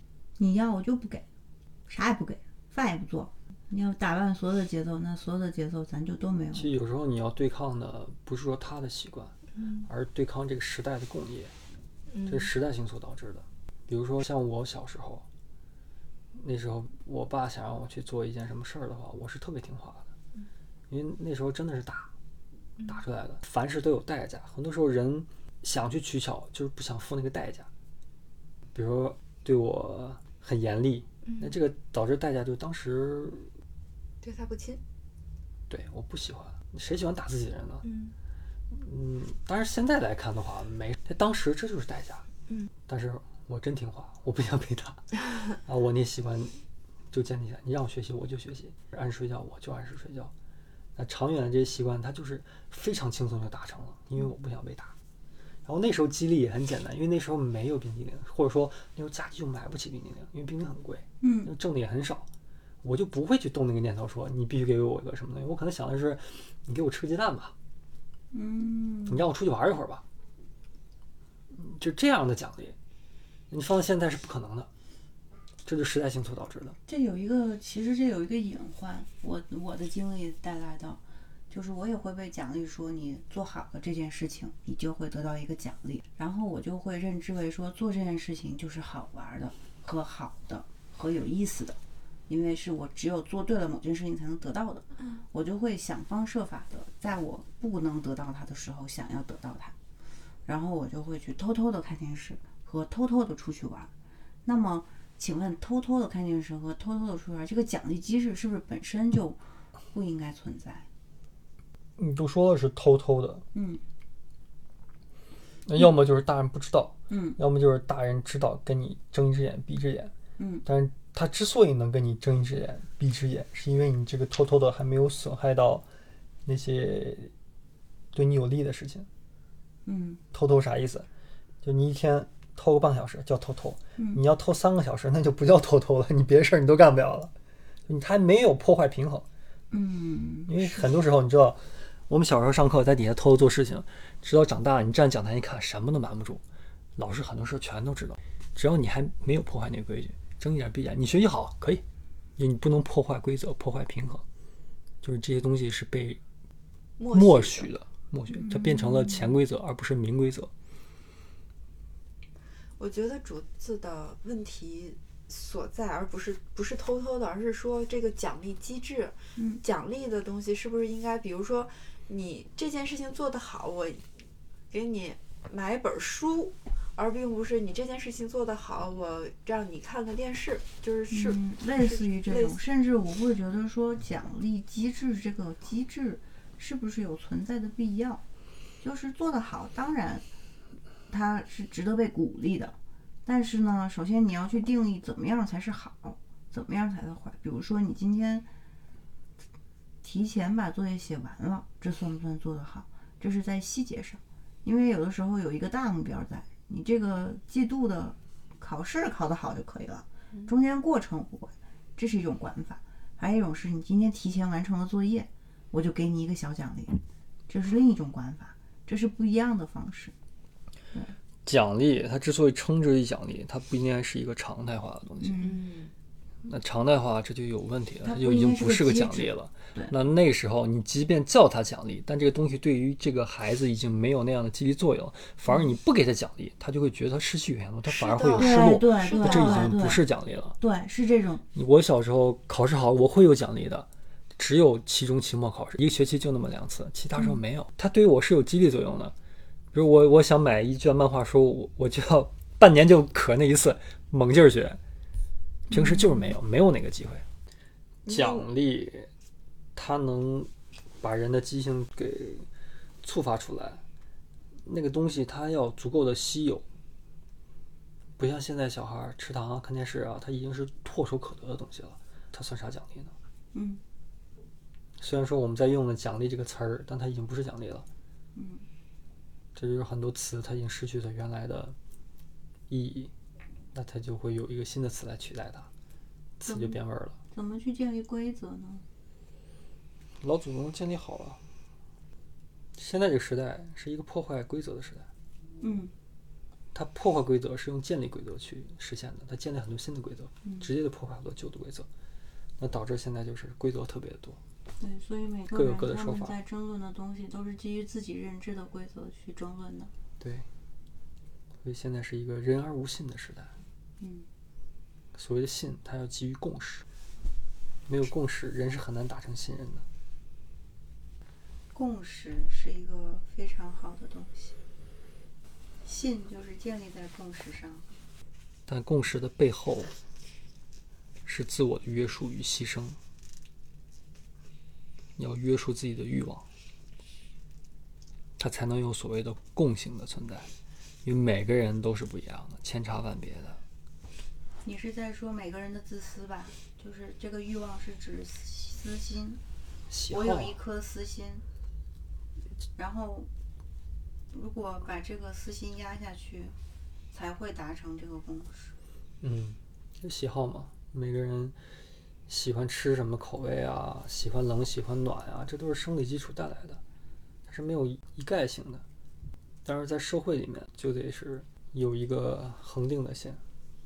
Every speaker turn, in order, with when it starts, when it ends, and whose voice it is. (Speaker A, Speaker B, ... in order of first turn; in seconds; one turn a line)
Speaker A: 0.4-1.3
Speaker A: 1.9-6.7
Speaker B: 6.5-11.5
Speaker C: 12.1-12.5
Speaker B: 12.3-15.3
Speaker B: 16.3-20.1
Speaker B: 20.9-22.1
Speaker B: 22.9-27.7
Speaker B: 28.7-33.5
Speaker C: 31.2-31.6
Speaker C: 34.2-34.8
Speaker B: 35.7-37.9
Speaker C: 37.8-38.1
Speaker B: 38.7-42.2
Speaker B: 42.9-46.6
Speaker B: 47.1-50.3
Speaker B: 51.0-55.0
Speaker B: 55.6-62.3
Speaker A: 61.2-61.5
Speaker B: 62.8-67.5
Speaker A: 68.3-69.2
Speaker B: 69.1-70.0
Speaker B: 71.5-72.8
Speaker B: 73.5-74.7
Speaker B: 75.7-76.8
Speaker A: 76.9-99.8
Speaker A: 100.5-103.9
Speaker A: 104.5-109.4
Speaker A: 109.9-110.9
Speaker B: 112.0-113.5
Speaker A: 113.5-113.8
Speaker B: 115.7-120.1
Speaker A: 117.1-117.4
Speaker A: 120.4-120.7
Speaker B: 120.7-125.8
Speaker B: 126.5-127.3
Speaker B: 128.1-129.1
Speaker A: 129.8-130.2
Speaker B: 130.3-131.1
Speaker B: 131.6-137.3
Speaker B: 137.9-139.3
Speaker A: 139.7-140.9
Speaker B: 140.5-146.4
Speaker B: 147.0-151.8
Speaker B: 152.4-154.2
Speaker B: 155.0-156.2
Speaker C: 157.0-157.7
Speaker B: 157.1-160.5
Speaker A: 158.4-159.4
Speaker C: 162.8-174.1
Speaker A: 169.4-169.6
Speaker C: 174.7-182.6
Speaker A: 181.1-188.2
Speaker A: 188.8-190.2
Speaker A: 191.1-198.5
Speaker A: 200.0-220.1
Speaker B: 221.5-225.4
Speaker A: 225.2-225.6
Speaker C: 225.4-225.9
Speaker B: 226.4-240.6
Speaker A: 228.0-229.9
Speaker C: 237.8-239.8
Speaker A: 238.3-240.0
Speaker A: 240.6-241.5
Speaker B: 241.5-249.1
Speaker B: 249.7-254.8
Speaker A: 255.7-256.4
Speaker B: 255.7-257.2
Speaker B: 258.1-259.1
Speaker C: 258.1-258.5
Speaker B: 259.8-260.5
Speaker B: 261.0-262.5
Speaker B: 263.0-263.8
Speaker B: 264.7-266.6
Speaker B: 268.2-273.1
Speaker A: 273.5-273.8
Speaker B: 275.0-277.9
Speaker A: 278.4-278.6
Speaker B: 279.6-281.8
Speaker B: 282.7-283.1
Speaker B: 283.7-285.7
Speaker B: 286.4-287.2
Speaker A: 286.4-286.8
Speaker A: 287.3-288.9
Speaker B: 290.2-291.4
Speaker B: 292.8-295.1
Speaker A: 295.6-295.9
Speaker B: 296.7-301.9
Speaker A: 300.4-300.7
Speaker B: 302.6-304.4
Speaker A: 304.8-309.9
Speaker B: 305.5-306.4
Speaker B: 310.2-310.5
Speaker B: 311.6-313.6
Speaker A: 314.0-314.3
Speaker B: 315.1-316.9
Speaker B: 317.9-319.9
Speaker A: 321.7-324.6
Speaker A: 325.8-327.9
Speaker B: 328.7-329.9
Speaker B: 331.2-333.0
Speaker B: 335.2-336.5
Speaker B: 338.4-340.5
Speaker B: 341.0-343.6
Speaker A: 344.6-349.4
Speaker B: 349.9-350.6
Speaker A: 350.1-351.4
Speaker A: 352.8-353.3
Speaker A: 354.3-356.6
Speaker A: 357.1-358.7
Speaker B: 359.2-361.6
Speaker B: 362.3-366.8
Speaker B: 367.5-368.8
Speaker B: 369.6-373.4